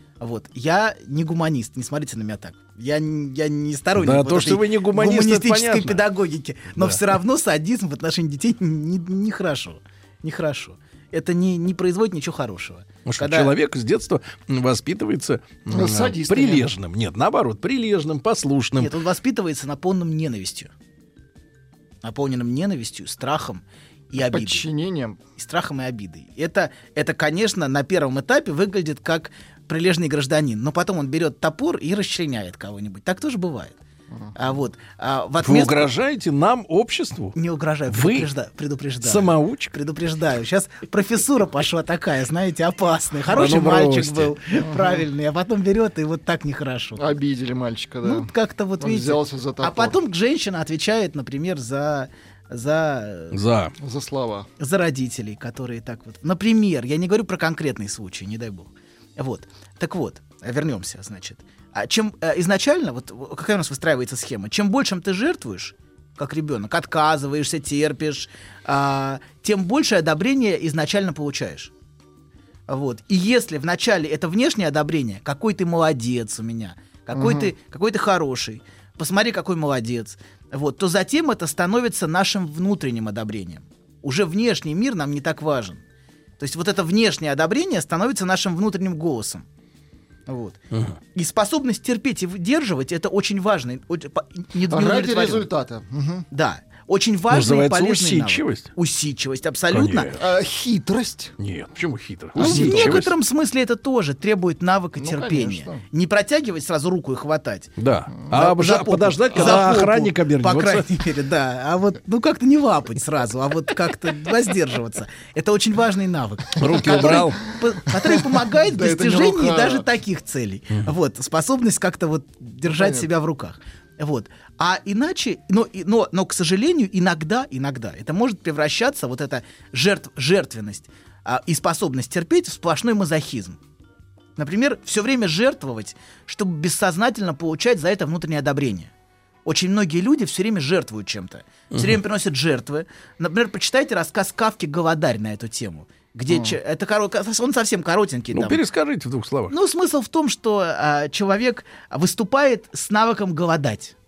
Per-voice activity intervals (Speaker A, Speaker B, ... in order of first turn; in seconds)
Speaker A: 0.2-13.5, 18.8-20.7, 22.0-24.6, 25.4-33.8, 34.3-35.9, 37.3-47.1, 48.0-53.4, 54.6-71.7, 72.7-85.8, 86.4-89.4, 90.3-90.6, 91.1-95.5, 96.3-100.1, 102.4-107.7, 108.3-133.6, 134.4-138.9, 139.4-148.6, 149.5-153.9
Speaker B: 4.0-6.0, 13.1-18.9, 35.4-37.4, 37.9-38.3, 39.0-39.7, 43.3-44.3, 53.3-53.7, 90.7-91.0, 97.3-98.7, 99.7-100.2, 101.4-103.1, 107.8-110.9, 116.6-117.4, 141.7-142.0, 148.3-149.5
Speaker C: 15.7-16.7, 24.2-25.2, 44.6-45.0, 47.0-50.0, 53.8-54.5, 77.1-77.5, 94.7-96.3, 100.1-101.3, 102.3-103.0, 105.0-105.8, 116.7-117.3, 117.8-119.9, 122.7-123.1, 146.3-146.6